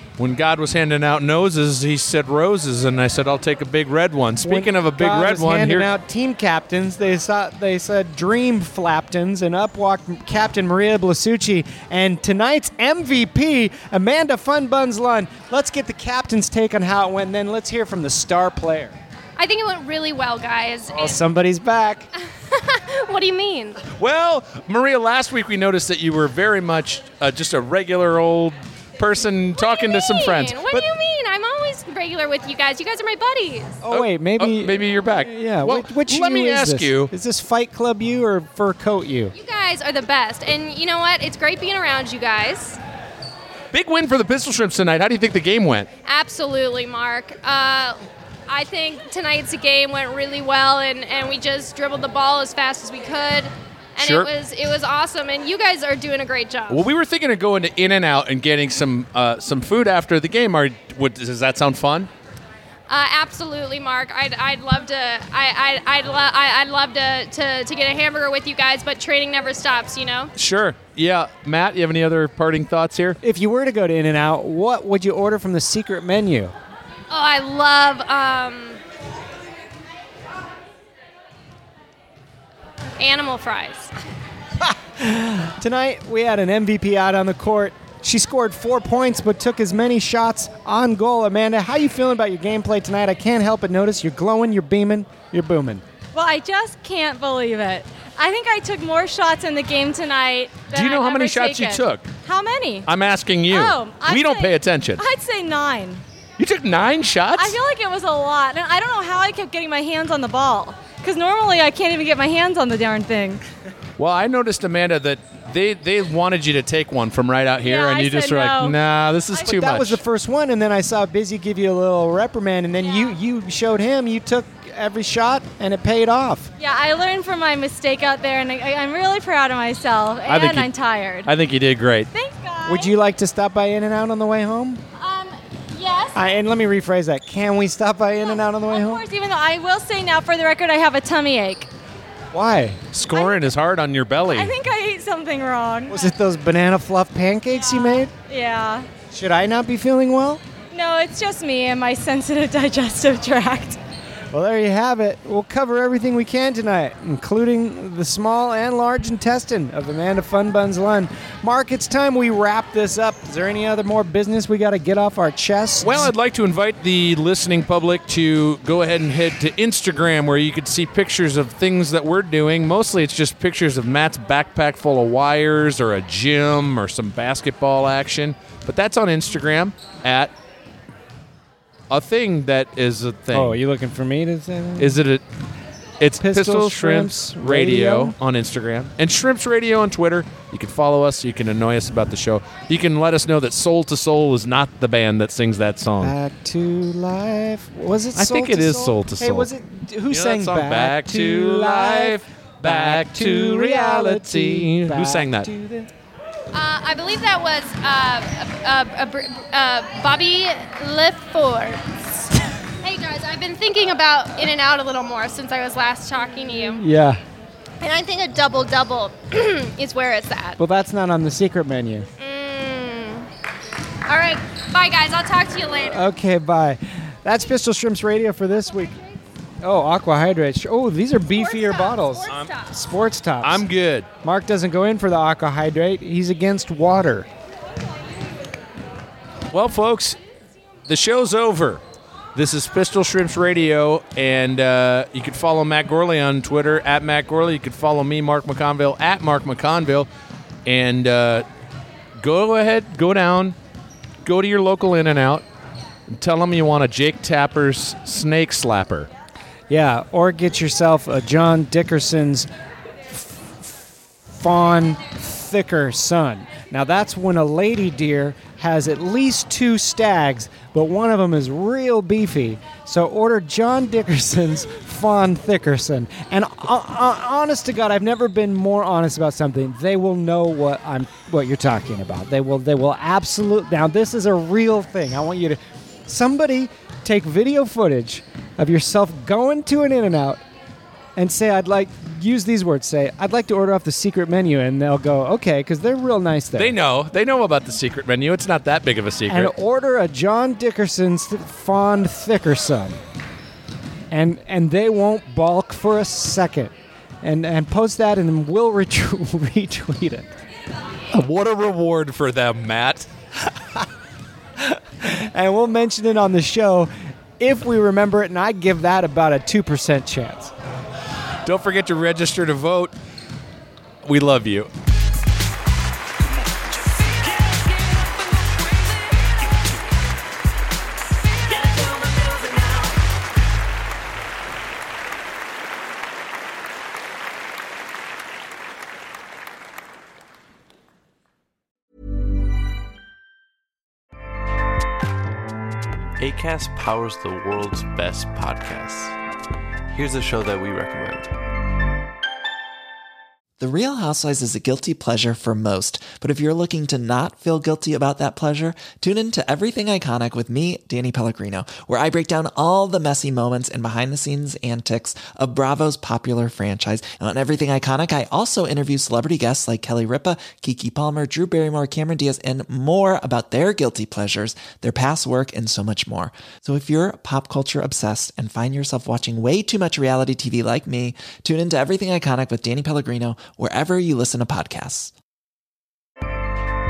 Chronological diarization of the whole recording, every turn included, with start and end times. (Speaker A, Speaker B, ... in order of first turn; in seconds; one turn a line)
Speaker A: 0.2-5.9
Speaker B: 4.4-19.0
Speaker C: 19.4-21.2
Speaker B: 20.9-22.1
Speaker C: 22.5-23.8
Speaker A: 23.9-30.9
Speaker C: 29.6-33.8
Speaker B: 33.8-39.3
Speaker A: 33.9-37.1
Speaker C: 39.3-42.8
Speaker A: 43.7-45.9
Speaker C: 46.0-48.0
Speaker C: 48.5-56.9
Speaker A: 54.0-54.3
Speaker A: 56.7-62.1
Speaker C: 62.9-70.3
Speaker A: 70.3-73.2
Speaker B: 73.2-76.5
Speaker C: 77.1-78.8
Speaker C: 83.0-83.9
Speaker B: 84.7-95.8
Speaker D: 96.1-102.9
Speaker A: 100.7-102.1
Speaker A: 102.8-105.0
Speaker D: 103.5-106.0
Speaker A: 106.4-107.6
Speaker D: 107.3-113.4
Speaker A: 114.0-120.0
Speaker D: 117.6-118.8
Speaker D: 119.3-119.6
Speaker B: 119.4-126.5
Speaker D: 126.6-131.3
Speaker A: 130.2-130.7
Speaker A: 131.2-132.1
Speaker D: 132.1-132.9
Speaker B: 132.7-134.8
Speaker D: 135.0-136.1
Speaker B: 136.1-139.0
Speaker D: 138.2-141.7
Speaker B: 142.3-142.8
Speaker A: 142.9-144.5
Speaker D: 143.1-143.5
Speaker D: 144.3-146.1
Speaker B: 145.9-148.1
Speaker D: 147.6-148.9
Speaker B: 149.1-150.4
Speaker D: 150.7-153.8
Speaker B: 154.3-166.1
Speaker A: 165.8-180.3
Speaker A: 181.9-183.6
Speaker B: 183.3-185.0
Speaker A: 184.8-185.2
Speaker A: 186.0-196.1
Speaker B: 186.2-188.1
Speaker B: 196.0-205.9
Speaker A: 198.1-199.5
Speaker A: 200.1-205.5
Speaker C: 206.5-212.0
Speaker C: 212.8-216.8
Speaker B: 216.6-217.2
Speaker C: 217.8-220.6
Speaker B: 220.6-222.1
Speaker C: 222.2-223.3
Speaker C: 224.1-226.0
Speaker B: 225.9-228.9
Speaker B: 229.6-233.6
Speaker C: 231.3-232.7
Speaker A: 232.3-232.5
Speaker A: 233.4-234.1
Speaker B: 234.2-237.3
Speaker A: 239.5-240.2
Speaker A: 240.8-241.8
Speaker A: 242.3-250.1
Speaker A: 250.6-251.4
Speaker A: 252.2-253.6
Speaker A: 254.2-255.4
Speaker A: 256.1-259.1
Speaker B: 259.7-262.5
Speaker B: 263.1-290.4
Speaker B: 291.1-296.7
Speaker A: 296.5-299.5
Speaker B: 299.3-303.0
Speaker B: 304.1-310.3
Speaker A: 311.1-313.1
Speaker B: 314.6-320.5
Speaker A: 321.4-322.9
Speaker A: 324.0-324.7
Speaker A: 327.4-328.9
Speaker A: 331.6-332.8
Speaker E: 346.2-349.2
Speaker E: 349.9-351.3
Speaker F: 353.6-385.1